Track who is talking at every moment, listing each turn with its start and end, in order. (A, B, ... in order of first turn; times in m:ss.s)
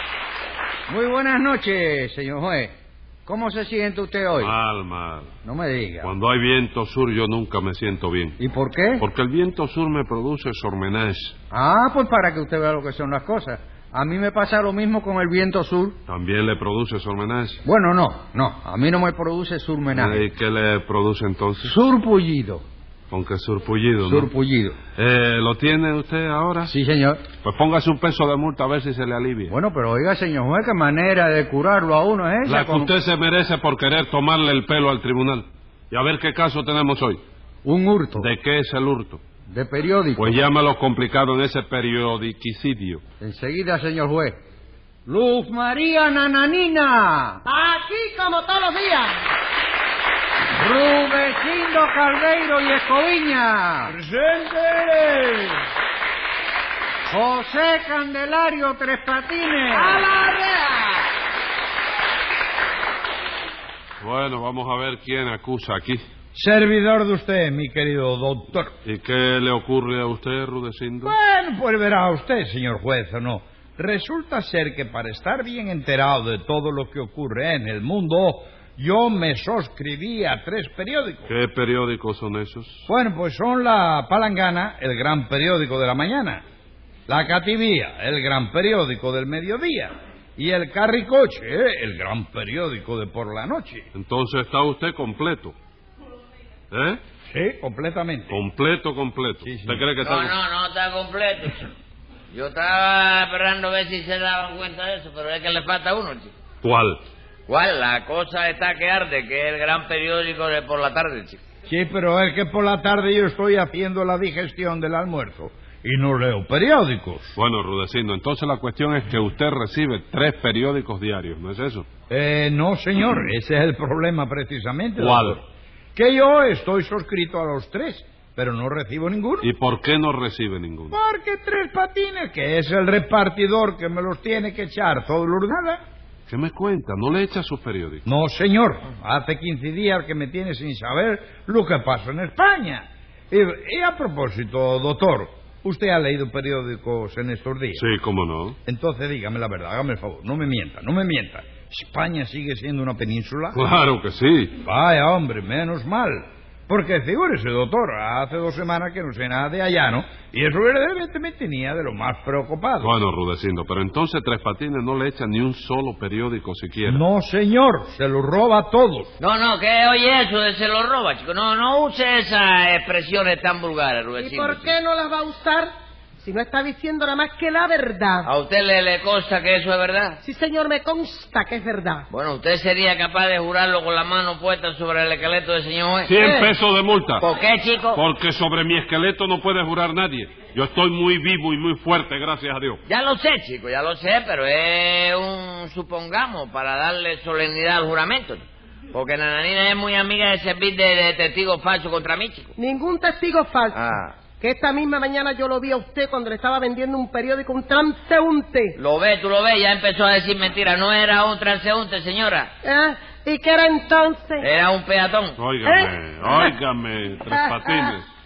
0:00.9-0:02.7 A
0:03.3-0:04.6 A
0:04.4-0:05.3 B
0:05.4-0:06.1 A
0:06.0-0:08.4 B
0:08.4-0:09.1 A
0:09.0-0:11.4 B
0:11.5-0:16.0 A
0:16.1-0:17.6 B
0:17.6-0:20.3 A
0:19.9-0:21.8 B
0:21.6-0:22.6 A
0:23.1-0:24.3 B
0:24.0-0:24.8 A
0:25.0-0:26.7 B
0:26.6-0:27.2 A
0:27.4-0:29.6 B
0:29.5-0:32.9 A
0:32.4-0:37.2 B
0:37.6-0:38.3 A
0:38.2-0:39.2 B
0:39.5-0:40.4 A
0:40.2-0:43.0 B
0:43.2-0:44.4 A
0:45.1-0:47.4 A
0:47.4-0:49.2 C
0:50.5-0:53.9 A
0:53.9-0:55.6 D
0:57.1-1:00.0 A
0:59.8-1:00.8 D
1:04.0-1:06.0 B
1:06.4-1:08.7 D
1:08.8-1:11.2 B
1:11.0-1:21.3 D
1:21.3-1:22.9 B
1:22.9-1:26.4 D
1:27.1-1:33.8 D
1:33.9-1:35.6 B
1:36.7-1:37.0 B
1:37.3-1:38.4 D
1:38.3-1:40.4 B
1:39.4-1:39.8 D
1:40.0-1:41.7 E
1:42.3-1:46.3 E
1:46.6-1:47.0 B
1:47.5-1:51.4 E
1:51.7-1:57.4 D
1:57.4-2:01.9 B
2:02.1-2:05.4 D
2:05.0-2:05.4 B
2:06.0-2:09.5 D
2:09.4-2:11.0 B
2:10.9-2:15.8 D
2:16.3-2:18.0 B
2:18.1-2:27.8 D
2:27.8-2:28.6 B
2:28.7-2:33.6 D
2:33.5-2:34.6 B
2:34.6-2:42.9 D
2:42.8-2:47.0 B
2:46.9-2:49.1 D
2:49.2-2:54.8 E
2:54.2-2:58.3 C
2:58.2-3:00.2 E
3:00.2-3:02.1 C
3:02.1-3:06.1 E
3:06.1-3:07.3 B
3:06.2-3:06.5 C
3:07.2-3:08.0 E
3:07.9-3:12.8 B
3:12.9-3:22.5 E
3:22.6-3:28.8 C
3:23.7-3:24.2 E
3:28.8-3:32.5 E
3:32.6-3:34.5 C
3:34.4-3:35.4 E
3:35.4-3:38.1 B
3:35.6-3:36.5 C
3:37.3-3:37.9 C